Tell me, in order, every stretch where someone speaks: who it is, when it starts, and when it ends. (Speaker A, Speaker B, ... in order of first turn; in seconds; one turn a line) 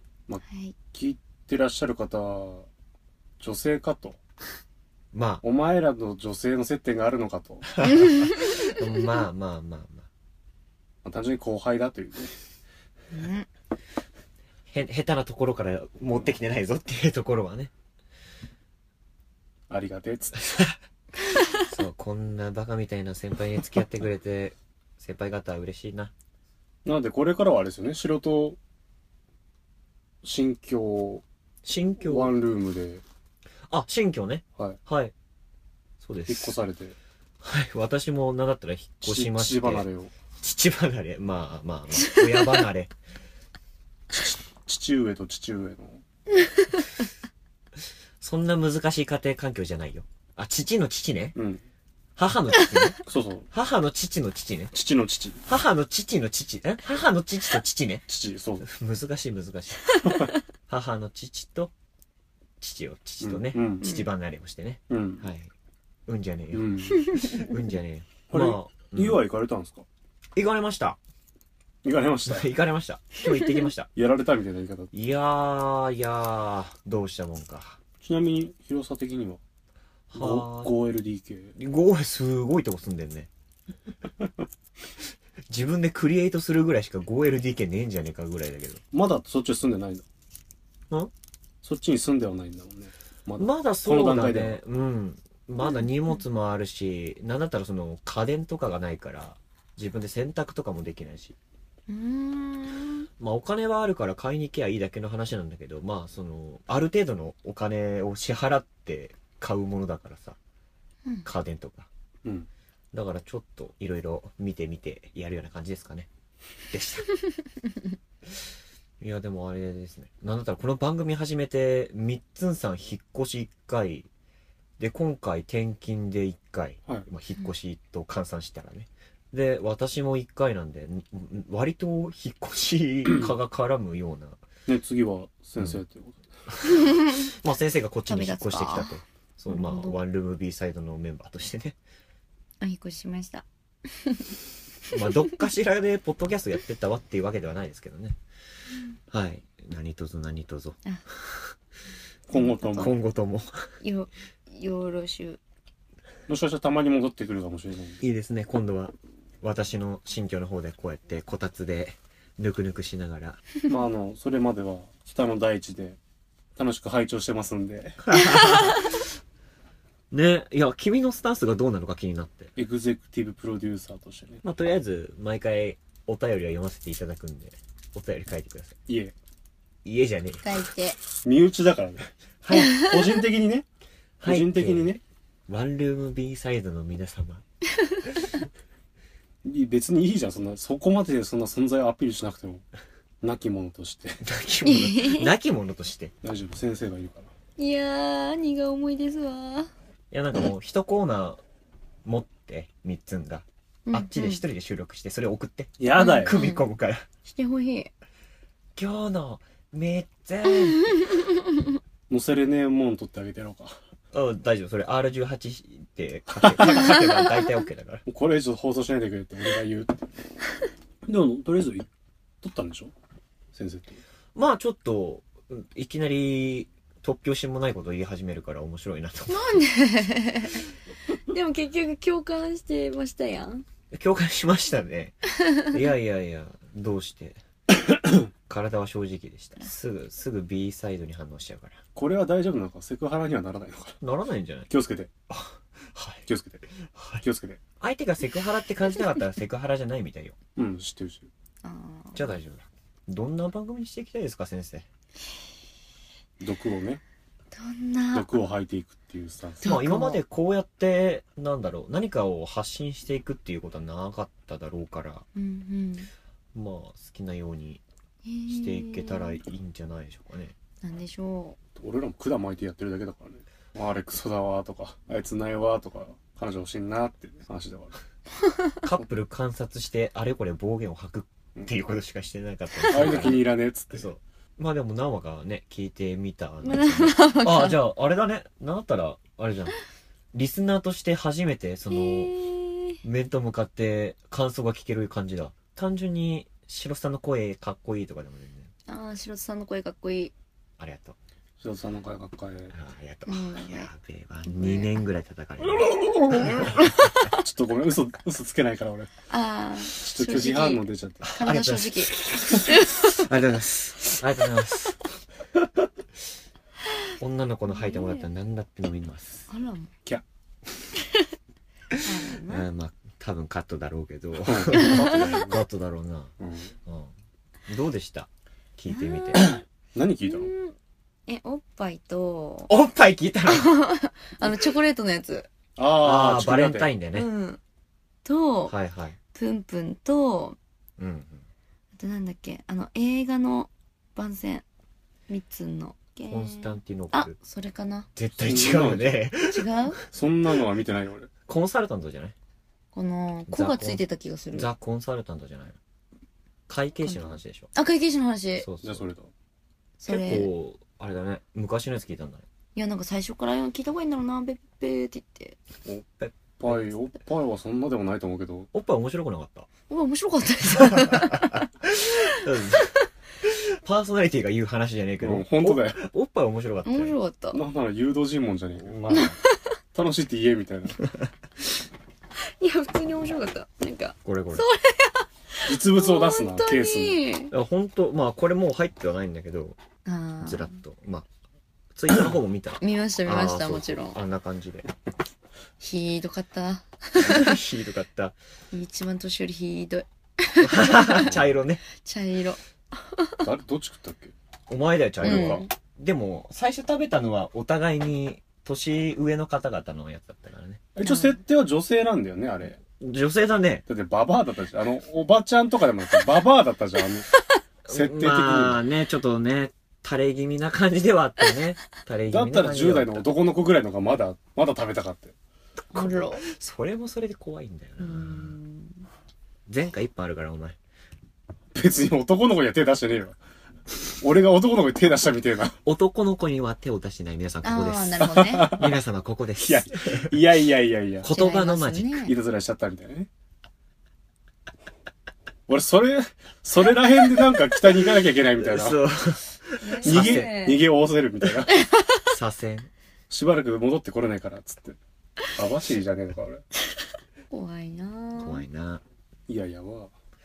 Speaker A: 0.3-2.7
Speaker B: 0.5-0.8
Speaker A: 3.4-4.2
Speaker C: 5.1-5.4
Speaker A: 5.4-7.7
Speaker C: 7.8-10.1
Speaker B: 7.8-8.6
Speaker A: 11.1-12.4
Speaker B: 13.1-13.5
Speaker C: 14.7-17.7
Speaker A: 19.7-20.7
Speaker C: 21.6-26.1
Speaker A: 26.9-28.6
Speaker A: 30.2-31.2
Speaker C: 31.6-32.4
Speaker A: 32.0-33.0
Speaker C: 33.7-35.1
Speaker C: 36.0-36.6
Speaker A: 36.3-37.0
Speaker C: 37.4-39.9
Speaker A: 39.0-40.1
Speaker C: 40.4-42.9
Speaker A: 44.1-46.0
Speaker C: 48.2-51.4
Speaker A: 51.4-51.6
Speaker C: 52.2-53.0
Speaker A: 53.1-53.5
Speaker C: 53.5-54.7
Speaker A: 54.7-55.5
Speaker C: 55.5-58.1
Speaker A: 58.1-58.7
Speaker C: 58.6-60.0
Speaker A: 60.0-60.3
Speaker C: 60.7-61.7
Speaker C: 62.6-65.5
Speaker A: 63.2-63.9
Speaker A: 64.9-65.3
Speaker C: 66.1-69.2
Speaker A: 66.5-67.1
Speaker B: 67.2-67.4
Speaker A: 68.3-69.8
Speaker C: 70.3-71.0
Speaker A: 71.8-72.6
Speaker C: 72.2-73.9
Speaker A: 74.0-74.9
Speaker C: 74.9-77.8
Speaker A: 78.0-79.4
Speaker C: 80.1-80.7
Speaker A: 80.1-81.5
Speaker C: 81.6-83.3
Speaker C: 85.5-88.8
Speaker A: 88.9-90.0
Speaker A: 91.6-94.6
Speaker C: 93.4-101.4
Speaker B: 101.9-103.1
Speaker C: 103.2-110.4
Speaker C: 111.2-111.9
Speaker C: 112.9-116.1
Speaker C: 116.7-117.1
Speaker C: 119.0-124.1
Speaker C: 124.8-134.4
Speaker A: 134.7-136.2
Speaker C: 136.6-141.8
Speaker B: 136.7-137.2
Speaker B: 138.1-140.0
Speaker B: 142.6-143.4
Speaker B: 144.0-144.3
Speaker C: 144.9-148.2
Speaker C: 149.1-151.5
Speaker A: 152.3-153.0
Speaker B: 152.4-152.9
Speaker C: 152.7-153.6
Speaker B: 153.8-155.4
Speaker A: 156.3-158.0
Speaker C: 158.0-163.4
Speaker A: 163.7-166.0
Speaker A: 166.6-168.1
Speaker C: 168.1-169.0
Speaker B: 168.2-168.8
Speaker C: 170.1-172.5
Speaker A: 172.6-174.4
Speaker C: 174.4-178.8
Speaker A: 178.9-179.1
Speaker C: 179.8-180.6
Speaker B: 180.4-181.0
Speaker A: 181.2-183.7
Speaker C: 182.4-182.8
Speaker B: 182.5-182.9
Speaker C: 184.2-187.4
Speaker A: 184.2-185.0
Speaker A: 189.4-192.6
Speaker A: 193.2-194.2
Speaker C: 194.2-196.1
Speaker B: 194.6-195.3
Speaker A: 196.2-197.3
Speaker B: 197.6-199.7
Speaker C: 200.1-201.4
Speaker C: 202.1-207.1
Speaker B: 203.9-204.4
Speaker A: 205.8-206.4
Speaker B: 206.0-206.6
Speaker B: 207.3-207.9
Speaker C: 208.8-210.9
Speaker A: 212.1-213.8
Speaker C: 214.1-218.0
Speaker A: 218.1-220.1
Speaker A: 221.1-221.9
Speaker A: 222.4-222.9
Speaker A: 223.5-224.0
Speaker C: 224.3-229.6
Speaker B: 229.3-230.6
Speaker B: 231.2-233.7
Speaker C: 233.9-237.4
Speaker C: 238.5-241.8
Speaker A: 241.9-244.0
Speaker C: 244.0-244.7
Speaker A: 244.7-245.1
Speaker C: 245.3-246.3
Speaker A: 246.3-246.7
Speaker C: 246.8-247.2
Speaker A: 247.2-247.6
Speaker C: 247.8-250.4
Speaker A: 250.6-251.3
Speaker B: 251.6-252.3
Speaker C: 252.2-254.9
Speaker A: 256.4-257.0
Speaker B: 257.5-258.3
Speaker A: 258.1-259.8
Speaker B: 259.6-260.2
Speaker C: 259.6-265.3
Speaker B: 265.4-266.1
Speaker C: 266.5-267.8
Speaker B: 268.2-269.4
Speaker C: 268.5-270.6
Speaker B: 270.8-271.6
Speaker A: 271.8-278.0
Speaker C: 278.8-289.7
Speaker B: 282.8-283.1
Speaker A: 282.9-284.1
Speaker B: 286.6-287.8
Speaker C: 290.3-292.4
Speaker B: 291.9-293.0
Speaker C: 293.0-298.7
Speaker B: 298.9-300.3
Speaker C: 300.8-301.2
Speaker A: 301.6-302.7
Speaker C: 302.7-306.9
Speaker B: 303.3-303.9
Speaker B: 304.5-304.9
Speaker A: 306.2-306.7
Speaker B: 306.5-307.4
Speaker A: 307.3-309.1
Speaker B: 309.3-312.1
Speaker A: 309.9-311.3
Speaker C: 311.2-315.0
Speaker B: 312.6-313.2
Speaker C: 317.2-319.5
Speaker B: 317.7-318.3
Speaker B: 319.5-319.9
Speaker B: 322.0-322.7
Speaker C: 322.5-326.3
Speaker A: 324.4-325.6
Speaker B: 324.7-325.2
Speaker A: 326.4-326.7
Speaker C: 326.9-327.1
Speaker C: 327.7-329.5
Speaker B: 328.9-329.6
Speaker A: 329.4-330.5
Speaker B: 330.3-330.8
Speaker B: 331.3-332.7
Speaker C: 332.7-333.7
Speaker B: 333.5-335.5
Speaker A: 335.8-336.9
Speaker C: 336.0-337.3
Speaker B: 337.1-337.6
Speaker B: 338.2-338.8
Speaker C: 338.7-339.2
Speaker B: 339.3-340.6
Speaker C: 341.0-341.5
Speaker B: 342.0-344.6
Speaker B: 345.3-348.1
Speaker C: 346.3-347.4
Speaker C: 348.2-349.9
Speaker A: 348.4-349.2
Speaker B: 349.4-350.0
Speaker A: 350.1-351.3
Speaker C: 351.5-352.4
Speaker B: 352.9-354.7
Speaker C: 353.5-355.8
Speaker C: 356.7-357.7
Speaker B: 357.0-358.7
Speaker C: 358.6-359.1
Speaker A: 358.8-359.3
Speaker B: 360.0-360.5
Speaker C: 360.1-362.5
Speaker B: 362.8-365.6
Speaker A: 365.9-368.7
Speaker C: 366.2-366.9
Speaker C: 368.7-369.7
Speaker B: 369.9-372.9
Speaker C: 370.7-377.1
Speaker A: 375.2-376.0
Speaker B: 376.9-377.6
Speaker A: 377.5-379.0
Speaker C: 378.8-379.4
Speaker B: 379.1-379.7
Speaker A: 379.9-381.0
Speaker B: 382.5-387.5
Speaker C: 384.2-384.6
Speaker A: 385.7-387.2
Speaker C: 387.5-389.8
Speaker B: 390.1-390.8
Speaker C: 390.4-391.3
Speaker C: 391.9-394.9
Speaker B: 392.8-394.2
Speaker B: 395.8-397.6
Speaker C: 397.2-398.4
Speaker B: 398.7-401.3
Speaker C: 400.6-401.8
Speaker B: 401.9-403.4
Speaker A: 403.4-404.3
Speaker C: 404.7-410.8
Speaker A: 405.2-405.7
Speaker B: 405.2-405.7
Speaker A: 410.9-412.8
Speaker B: 411.1-411.4
Speaker C: 413.0-413.8
Speaker A: 413.9-417.3
Speaker C: 417.9-423.3
Speaker A: 417.9-418.8
Speaker A: 422.3-425.4
Speaker B: 425.9-426.4
Speaker C: 425.9-428.6
Speaker B: 428.0-429.1
Speaker C: 429.7-430.8
Speaker A: 431.7-433.4
Speaker A: 434.2-435.8
Speaker C: 435.8-440.3
Speaker B: 437.6-438.7
Speaker A: 438.3-439.0
Speaker A: 439.6-441.3
Speaker C: 441.2-442.2
Speaker B: 441.3-442.4
Speaker A: 442.2-443.3
Speaker A: 445.7-449.0
Speaker C: 448.6-450.5
Speaker B: 449.8-450.8
Speaker A: 450.1-451.8
Speaker B: 451.7-452.3
Speaker C: 452.3-452.9
Speaker A: 453.3-455.0
Speaker A: 455.5-456.6
Speaker B: 457.5-458.6
Speaker C: 458.4-459.0
Speaker A: 459.5-460.1